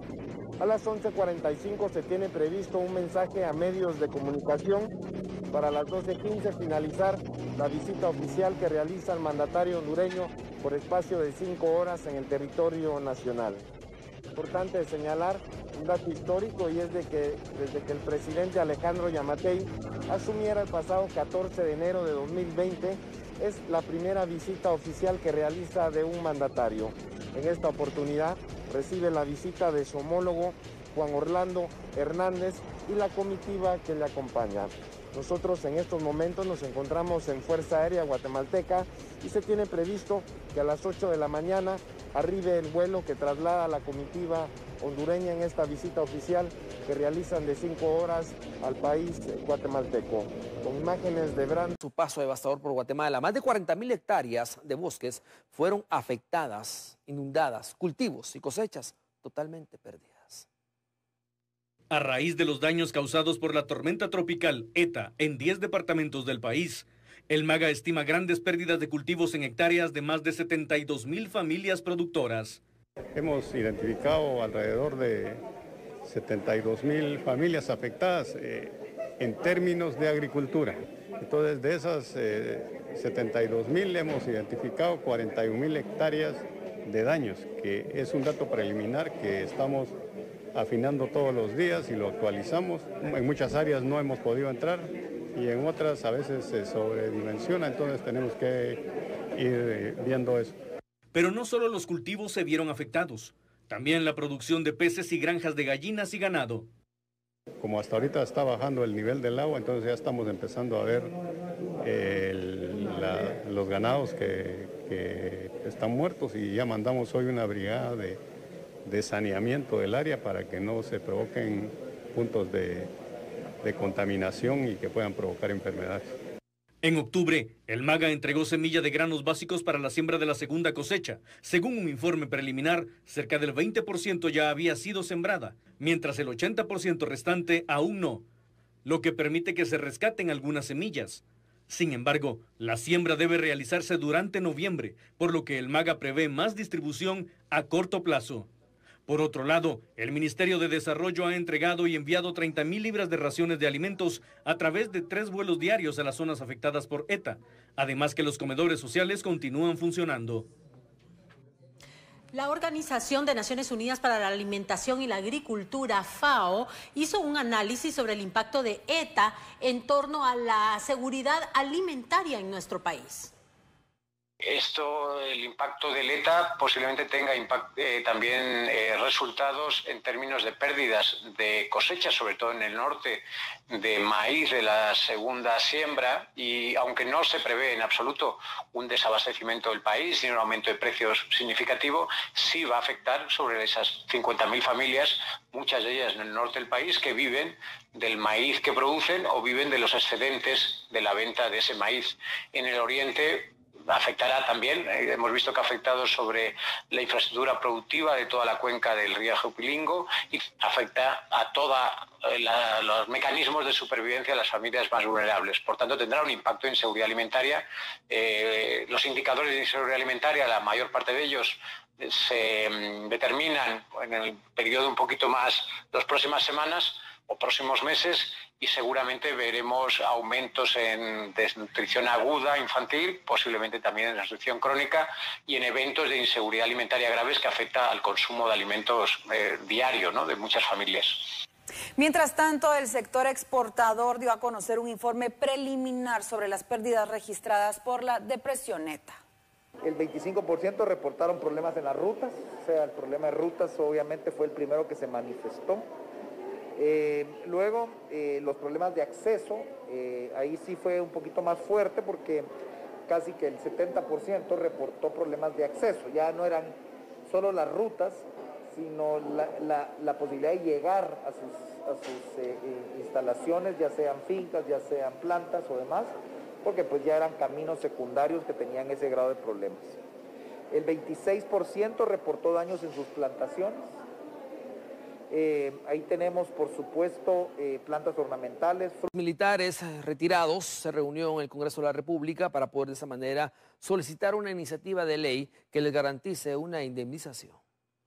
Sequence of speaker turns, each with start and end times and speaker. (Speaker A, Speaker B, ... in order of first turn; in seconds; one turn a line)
Speaker A: 0.6-4.9
Speaker A: 5.5-13.7
Speaker A: 14.3-51.7
Speaker B: 51.8-60.5
Speaker C: 61.9-72.6
Speaker D: 73.1-75.4
Speaker D: 76.0-89.9
Speaker D: 90.5-100.6
Speaker C: 101.1-106.7
Speaker D: 107.6-111.1
Speaker D: 111.8-118.2
Speaker D: 118.9-122.9
Speaker D: 123.6-126.0
Speaker C: 126.8-138.2
Speaker C: 138.8-148.5
Speaker C: 149.1-160.5
Speaker E: 162.3-173.3
Speaker F: 174.4-241.4
Speaker G: 241.9-249.2
Speaker H: 249.8-255.9
Speaker H: 256.8-262.5
Speaker H: 263.1-280.0
Speaker H: 280.7-283.9
Speaker H: 285.3-289.1
Speaker B: 289.1-297.6